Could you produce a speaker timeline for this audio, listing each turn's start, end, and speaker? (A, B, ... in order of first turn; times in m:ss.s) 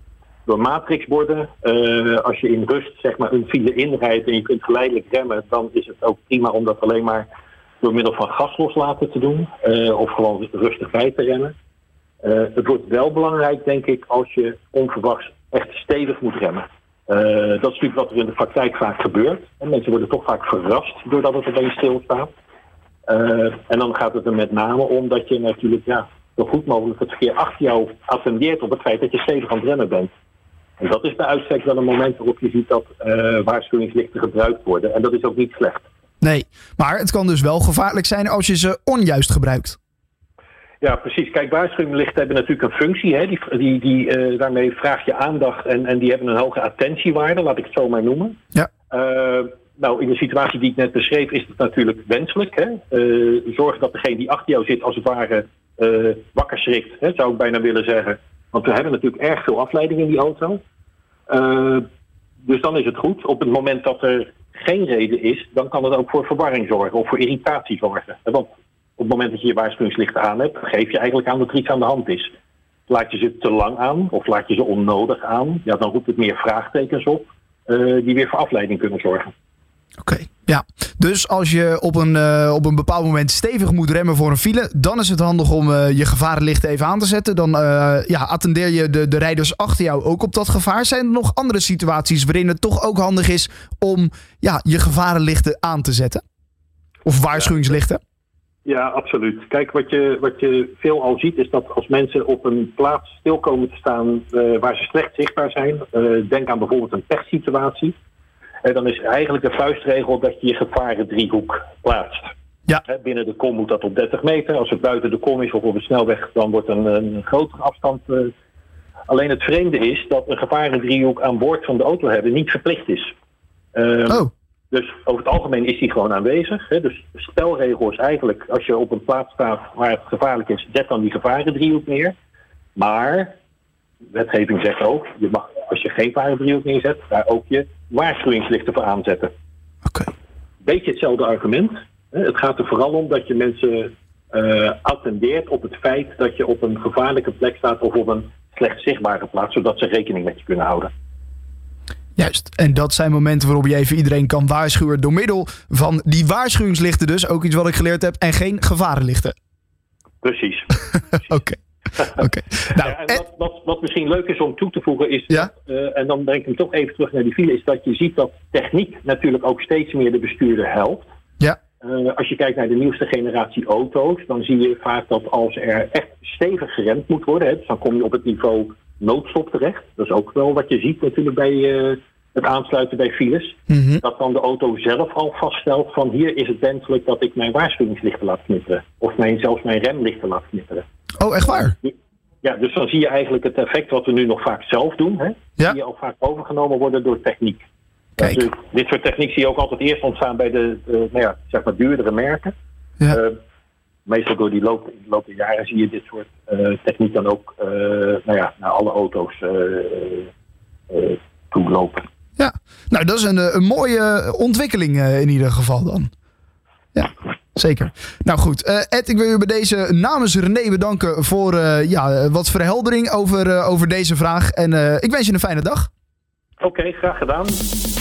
0:00.4-0:07.3 A
0:07.8-0:11.5 A
0:12.2-0:22.3 A
0:23.1-0:30.1 A
0:30.8-0:35.9 A
0:36.2-0:39.8 B
0:40.8-0:48.4 A
0:48.9-1:00.6 A
1:01.3-1:01.8 A
1:02.4-1:12.3 A
1:12.9-1:19.3 A
1:20.0-1:36.2 B
1:37.0-1:38.0 B
1:38.6-1:48.0 A
1:48.6-1:52.3 A
1:52.8-1:58.3 A
1:59.1-2:03.1 A
2:03.7-2:12.1 A
2:12.8-2:13.3 A
2:14.1-2:19.3 A
2:20.6-2:30.9 A
2:32.2-2:39.3 B
2:40.2-2:41.0 A
2:41.2-2:41.6 B
2:42.1-2:43.2 B
2:42.7-2:51.1 A
2:51.8-3:10.8 A
3:03.7-3:04.0 B
3:11.2-3:11.8 B
3:12.4-3:17.6 A
3:18.2-3:22.5 A
3:23.1-3:23.4 A
3:24.0-3:30.3 A
3:30.9-3:32.0 A
3:32.4-3:36.1 B
3:36.9-3:45.9 B
3:46.6-3:47.6 A